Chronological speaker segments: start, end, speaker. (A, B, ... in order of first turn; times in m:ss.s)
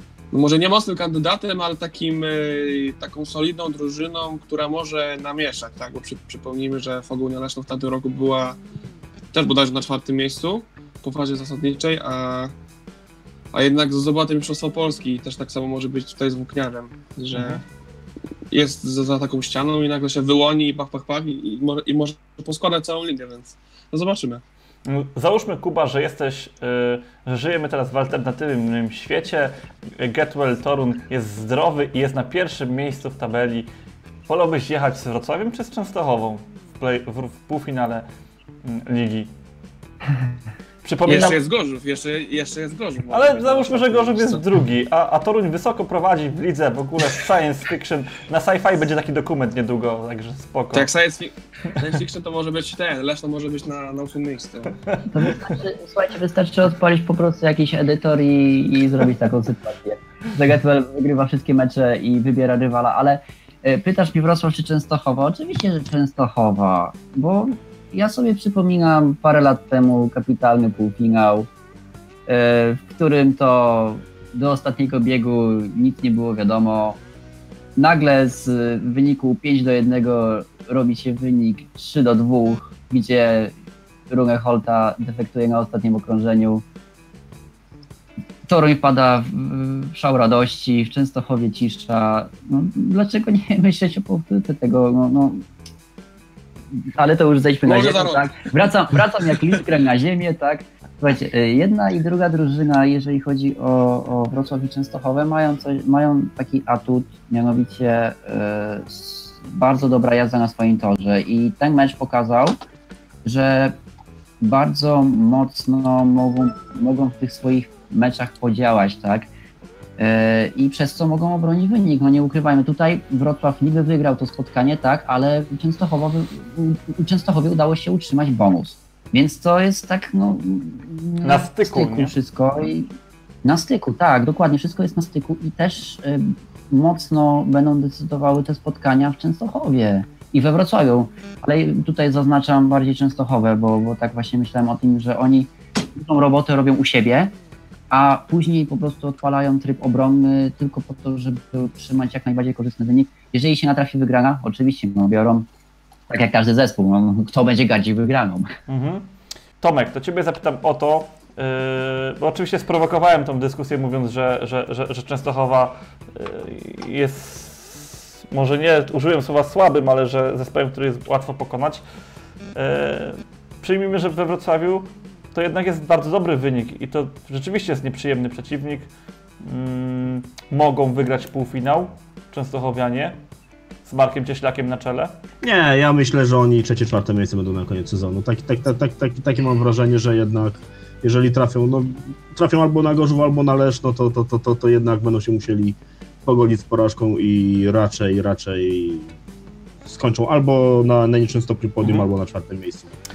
0:00.3-0:08.6 A
0:09.3-0:12.5 A
0:13.5-0:17.6 A
0:17.3-0:17.6 B
0:18.5-0:24.4 A
0:24.9-0:33.7 B
0:34.3-0:38.1 B
0:38.6-0:39.3 B
0:40.8-0:41.4 B
0:41.1-0:44.4 A
0:43.1-0:50.9 B
0:50.7-0:54.7 A
0:54.9-0:55.3 B
0:55.1-1:11.5 C
1:12.3-1:17.0 C
1:17.8-1:23.5 C
1:24.1-1:26.6 C
1:28.5-1:35.4 C
1:36.8-1:52.6 C
1:37.7-1:38.3 A
1:53.2-1:53.8 C
1:54.4-1:59.3 C
2:00.0-2:12.9 C
2:11.2-2:12.1 B
2:13.4-2:27.3 C
2:27.9-2:35.5 C
2:36.1-2:38.5 C
2:38.7-2:39.1 B
2:39.6-2:51.8 B
2:52.6-2:58.9 B
2:59.4-3:03.2 B
3:03.9-3:05.2 B
3:05.4-3:19.1 D
3:19.8-3:22.9 D